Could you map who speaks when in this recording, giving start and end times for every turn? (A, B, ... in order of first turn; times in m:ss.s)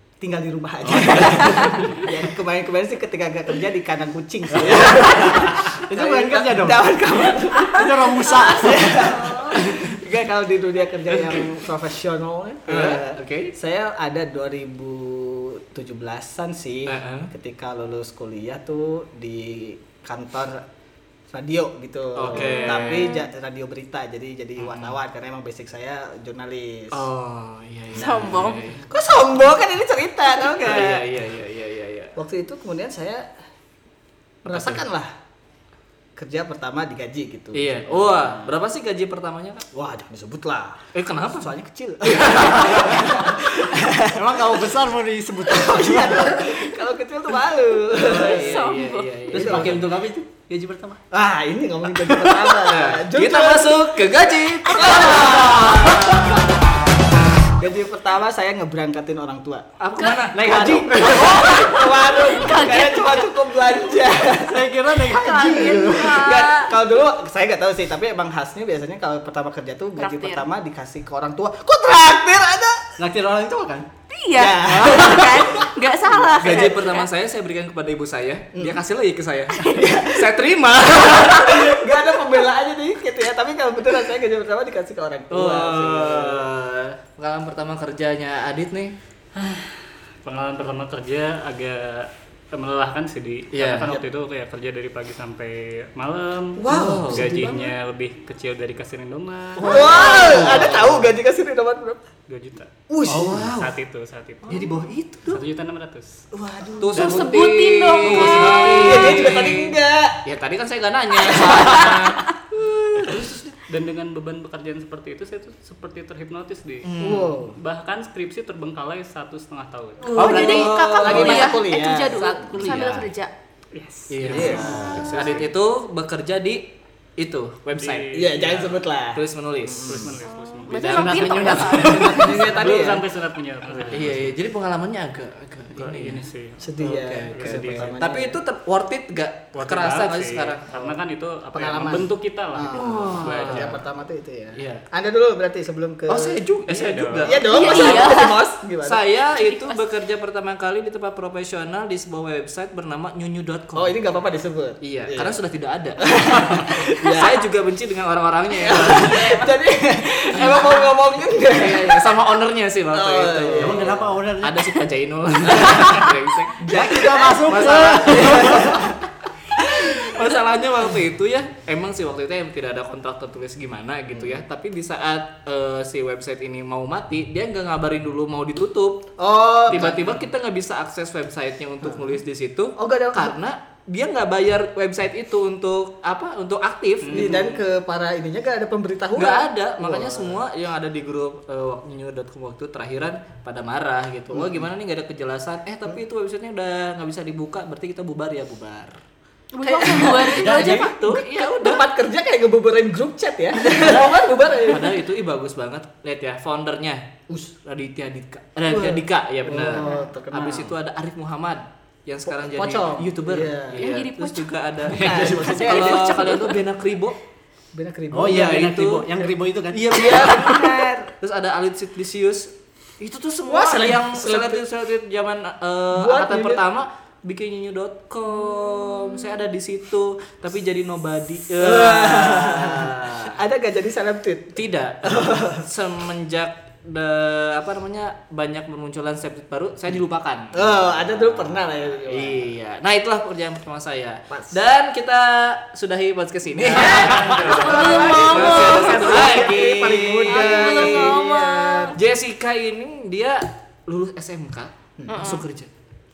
0:00.2-0:20.6 A
0:00.8-0:02.0 B
0:04.5-0:07.2 B
0:07.6-0:09.7 C
0:07.7-0:09.4 B
0:11.1-0:11.4 D
0:12.7-0:13.5 D
0:16.8-0:17.3 D
0:21.3-0:27.0 A
0:22.2-0:23.1 D
0:22.3-0:23.3 C
0:24.6-0:25.0 D
0:26.9-0:28.8 D
0:27.9-0:28.7 C
0:28.8-0:31.0 A
0:30.6-0:32.1 D
0:32.2-0:33.3 A
0:34.4-0:34.8 D
0:34.4-0:35.1 A
0:36.2-0:38.3 A
0:37.5-0:39.6 D
0:39.7-0:44.3 A
0:40.9-0:41.5 D
0:42.4-0:43.0 B
0:44.1-0:46.6 B
0:45.4-0:48.6 A
0:47.9-0:49.8 D
0:48.3-0:49.3 C
0:49.3-0:51.0 B
0:49.3-0:49.9 A
0:51.1-0:56.6 A
0:52.0-0:52.6 B
0:52.7-0:56.5 D
0:55.4-0:56.5 B
0:57.6-0:59.6 A
0:59.8-1:00.6 D
1:00.3-1:01.9 B
1:00.4-1:04.6 A
1:01.3-1:03.3 C
1:04.4-1:06.2 B
1:05.1-1:06.7 C
1:05.7-1:12.8 A
1:06.0-1:06.6 D
1:10.0-1:10.5 C
1:13.0-1:13.9 B
1:14.1-1:17.1 C
1:14.3-1:16.8 A
1:14.7-1:15.2 D
1:16.4-1:21.6 D
1:18.5-1:18.8 A
1:19.7-1:20.3 A
1:20.9-1:26.5 A
1:25.3-1:28.9 D
1:29.4-1:40.6 E
1:33.5-1:33.9 D
1:33.8-1:34.0 A
1:36.6-1:37.5 A
1:36.7-1:37.5 D
1:39.6-1:40.4 C
1:39.6-1:41.0 D
1:39.6-1:42.0 A
1:42.3-1:46.1 E
1:42.9-1:43.5 A
1:43.2-1:43.7 D
1:44.4-1:45.4 D
1:44.5-1:45.0 A
1:46.3-1:47.3 A
1:46.8-1:52.6 D
1:46.9-1:48.8 C
1:48.0-1:49.5 E
1:48.7-1:50.2 A
1:51.3-1:51.9 A
1:53.0-2:00.3 E
1:56.8-1:57.3 D
1:57.0-1:57.6 A
2:00.0-2:03.3 C
2:00.1-2:01.4 B
2:00.3-2:01.5 D
2:00.4-2:02.6 A
2:02.5-2:03.1 B
2:03.7-2:05.4 E
2:04.1-2:08.5 D
2:04.2-2:05.2 A
2:04.6-2:05.1 C
2:07.8-2:08.8 E
2:08.1-2:10.1 A
2:09.1-2:10.2 D
2:09.7-2:14.4 E
2:10.2-2:12.0 C
2:10.8-2:11.6 D
2:10.8-2:12.5 B
2:11.8-2:13.0 A
2:13.9-2:16.2 D
2:15.7-2:18.0 E
2:16.6-2:18.4 A
2:16.8-2:20.9 D
2:19.5-2:23.9 E
2:21.5-2:26.4 A
2:22.7-2:23.8 D
2:24.5-2:24.8 D
2:26.1-2:28.2 D
2:26.6-2:27.5 E
2:27.2-2:29.0 A
2:27.4-2:28.4 C
2:28.8-2:34.0 D
2:29.3-2:29.8 C
2:33.7-2:35.4 A
2:34.8-2:39.4 D
2:36.0-2:37.3 A
2:37.0-2:37.3 C
2:38.6-2:42.2 A
2:40.4-2:40.6 D
2:41.5-2:48.7 D
2:42.9-2:44.0 A
2:43.6-2:44.8 B
2:46.6-2:49.0 A
2:46.7-2:48.9 B
2:49.6-2:59.0 D
2:49.7-2:50.0 A
2:59.2-2:59.9 A
2:59.7-3:07.6 D
2:59.7-3:00.3 E
3:01.8-3:02.2 A
3:02.8-3:03.4 A
3:07.0-3:07.5 E
3:07.1-3:10.4 A
3:09.1-3:19.0 D
3:14.3-3:14.7 A
3:19.5-3:21.2 C
3:19.6-3:25.0 A
3:19.8-3:21.9 D
3:20.3-3:20.9 B
3:23.7-3:27.1 D
3:27.6-3:37.2 D
3:28.6-3:30.7 A
3:29.7-3:30.1 C
3:32.3-3:33.8 A
3:33.8-3:36.6 C
3:35.0-3:36.4 A
3:35.0-3:35.3 B
3:37.7-3:38.5 A
3:38.1-3:40.6 B
3:38.2-3:53.2 D
3:40.0-3:41.1 A
3:40.4-3:40.8 C
3:43.4-3:44.6 A
3:45.9-3:46.6 A
3:51.6-3:55.6 A
3:54.5-4:00.6 D
4:00.5-4:02.4 A
4:02.0-4:11.2 D
4:04.3-4:04.6 A
4:06.7-4:09.5 C
4:07.2-4:11.9 A
4:07.9-4:09.8 B
4:10.2-4:12.0 C
4:11.9-4:15.7 D
4:15.0-4:15.2 A
4:15.1-4:15.4 C